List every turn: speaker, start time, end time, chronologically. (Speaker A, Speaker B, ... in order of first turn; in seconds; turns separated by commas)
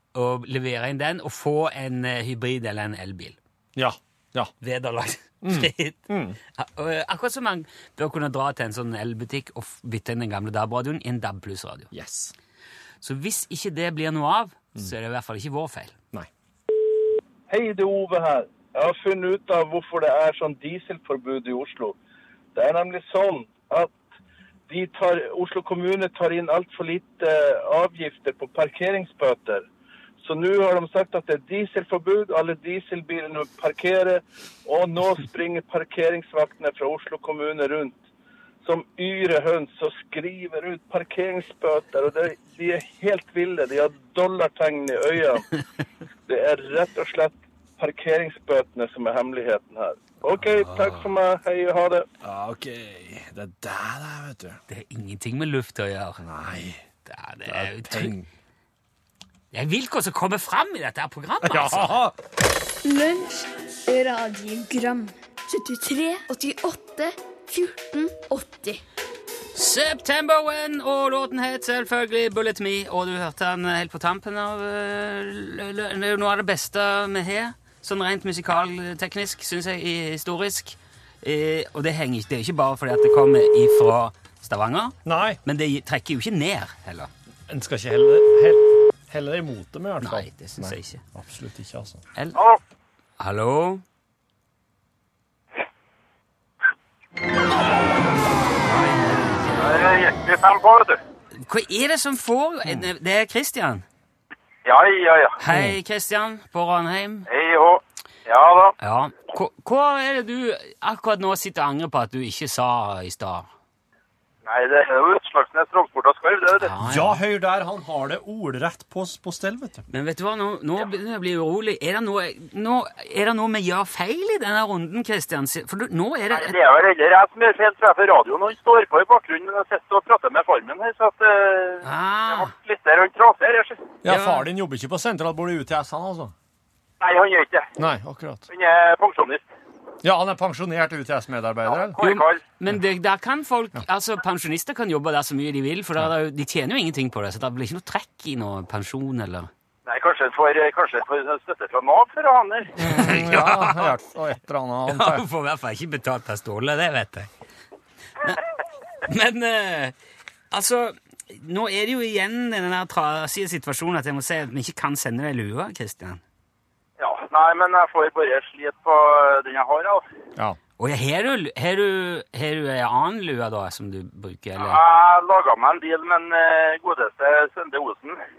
Speaker A: 0.1-3.4, Speaker B: 3.8-4.5, Speaker A: 4.6-11.9, Speaker B: 5.4-6.4, Speaker B: 11.9-12.3, Speaker A: 13.0-16.0, Speaker C: 17.5-22.0, Speaker C: 22.5-24.0, Speaker C: 24.7-29.7, Speaker C: 30.2-38.1, Speaker C: 38.6-45.5, Speaker C: 46.3-52.1, Speaker B: 52.2-54.6, Speaker A: 54.7-56.2, Speaker B: 56.2-56.8, Speaker A: 57.1-58.1, Speaker B: 57.5-58.3, Speaker A: 59.5-62.0, Speaker B: 61.4-62.2, Speaker D: 62.8-68.8, Speaker A: 69.5-87.1, Speaker B: 85.0-85.4, Speaker B: 87.5-92.0, Speaker A: 90.0-91.0, Speaker E: 92.3-92.6, Speaker A: 93.2-93.8, Speaker A: 98.5-99.8, Speaker E: 99.6-101.0, Speaker A: 101.3-103.8, Speaker E: 104.7-105.4, Speaker A: 105.4-107.3, Speaker B: 105.5-105.8, Speaker E: 107.3-108.7, Speaker A: 108.8-113.5, Speaker E: 114.4-116.7, Speaker A: 116.6-117.2, Speaker B: 116.8-119.8, Speaker A: 119.9-126.6, Speaker E: 126.3-133.8, Speaker A: 131.8-132.5, Speaker B: 134.0-136.3, Speaker A: 134.1-134.5, Speaker E: 137.0-137.7, Speaker B: 137.8-138.5, Speaker E: 138.5-139.5, Speaker B: 140.0-142.0, Speaker E: 141.7-142.4, Speaker A: 142.0-149.5, Speaker E: 149.9-152.7, Speaker B: 152.8-155.2, Speaker A: 152.8-153.9, Speaker A: 154.9-157.3, Speaker A: 159.1-159.9, Speaker A: 160.5-166.2, Speaker E: 167.0-170.1, Speaker A: 170.8-174.8, Speaker E: 174.6-178.2